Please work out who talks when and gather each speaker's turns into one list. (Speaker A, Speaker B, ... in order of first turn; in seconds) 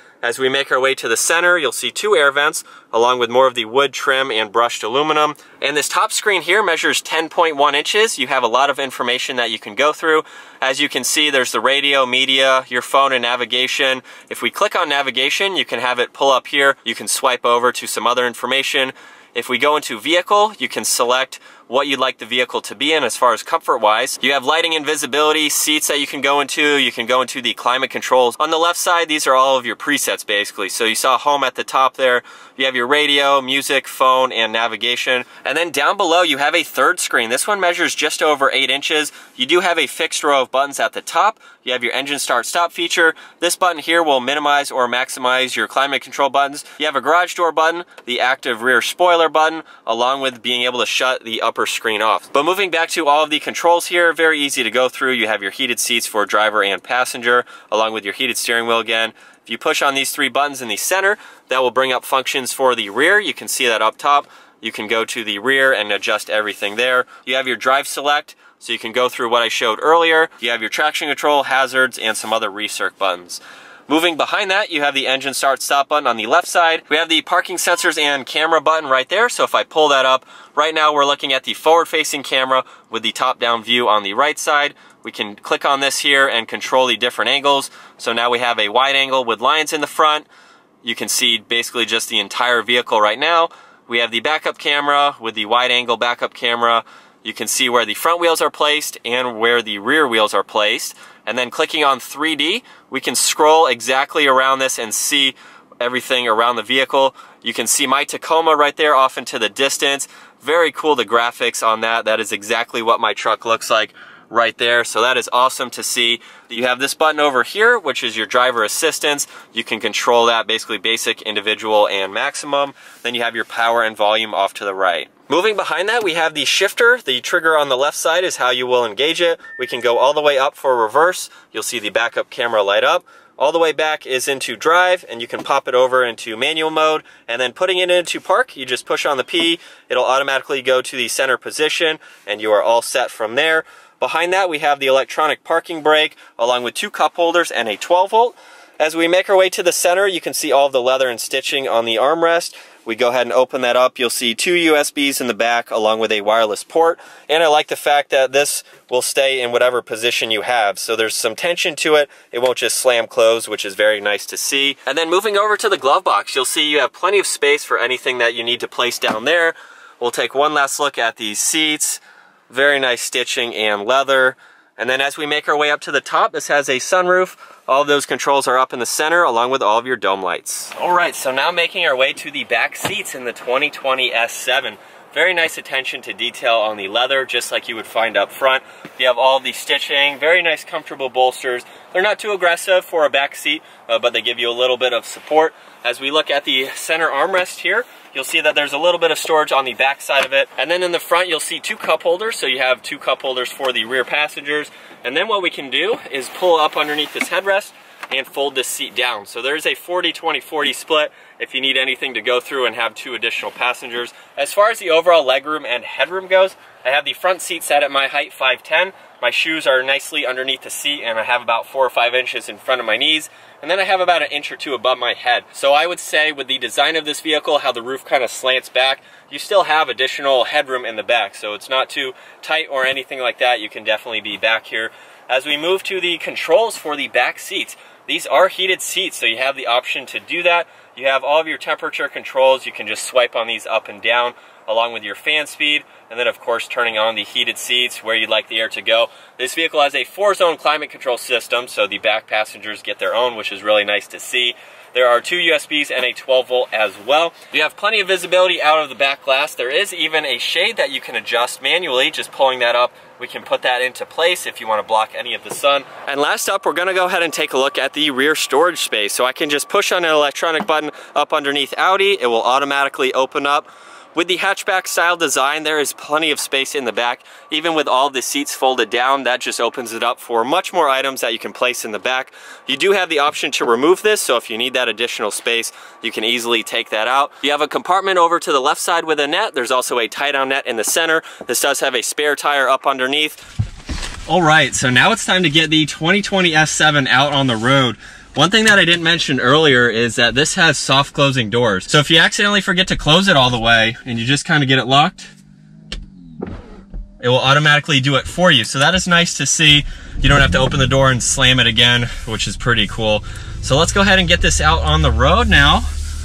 Speaker A: 0.2-90.3, 90.8-293.4, 294.3-305.3, 307.2-315.9